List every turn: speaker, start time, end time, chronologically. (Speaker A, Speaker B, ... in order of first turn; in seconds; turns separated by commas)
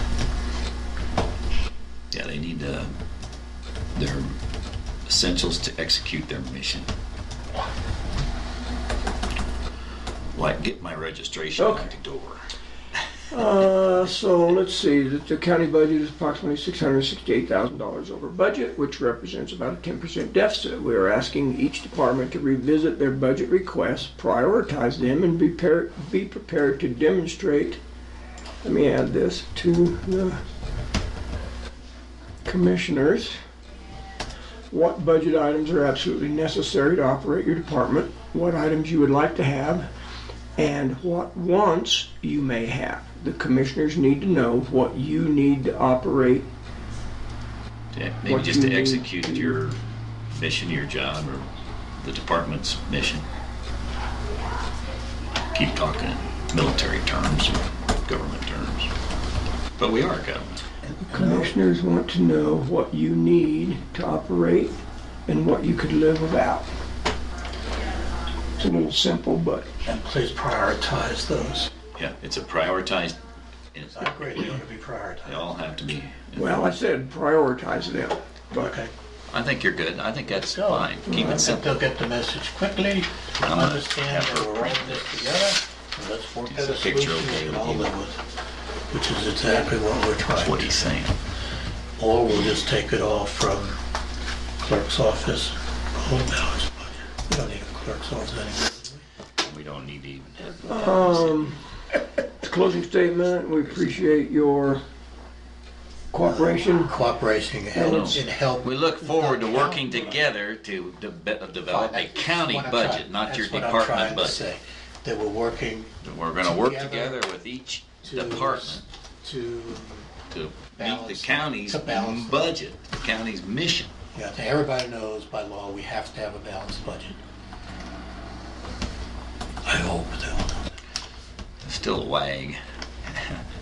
Speaker A: 2.1-2.9, Speaker A: 4.0-4.2, Speaker A: 5.1-6.9, Speaker A: 10.3-12.4, Speaker B: 11.6-11.9, Speaker B: 13.3-27.8, Speaker B: 28.6-30.4, Speaker B: 32.4-33.4, Speaker B: 34.7-39.9, Speaker B: 40.6-46.5, Speaker A: 47.9-49.8, Speaker B: 48.2-49.6, Speaker A: 50.3-51.5, Speaker A: 52.0-53.2, Speaker A: 55.5-58.9, Speaker A: 59.8-60.6, Speaker C: 60.8-61.6, Speaker B: 61.1-66.7, Speaker B: 68.6-69.7, Speaker C: 69.8-71.7, Speaker A: 72.0-73.2, Speaker A: 73.7-74.6, Speaker C: 73.9-75.5, Speaker A: 75.2-76.7, Speaker B: 76.3-78.7, Speaker C: 78.5-78.9, Speaker A: 79.3-81.8, Speaker C: 80.3-88.2, Speaker A: 83.4-85.3, Speaker A: 86.5-87.9, Speaker C: 88.9-90.8, Speaker A: 90.2-91.2, Speaker C: 92.0-93.8, Speaker C: 94.6-99.0, Speaker A: 99.4-101.5, Speaker B: 100.7-101.6, Speaker B: 102.4-104.8, Speaker A: 103.6-104.0, Speaker B: 106.1-106.9, Speaker C: 106.2-110.2, Speaker B: 107.7-108.2, Speaker A: 107.8-114.4, Speaker C: 111.6-117.2, Speaker A: 116.0-118.8, Speaker C: 118.0-120.1, Speaker A: 120.3-123.9, Speaker C: 120.7-122.5, Speaker C: 124.1-127.2, Speaker C: 129.6-130.7, Speaker A: 131.6-133.4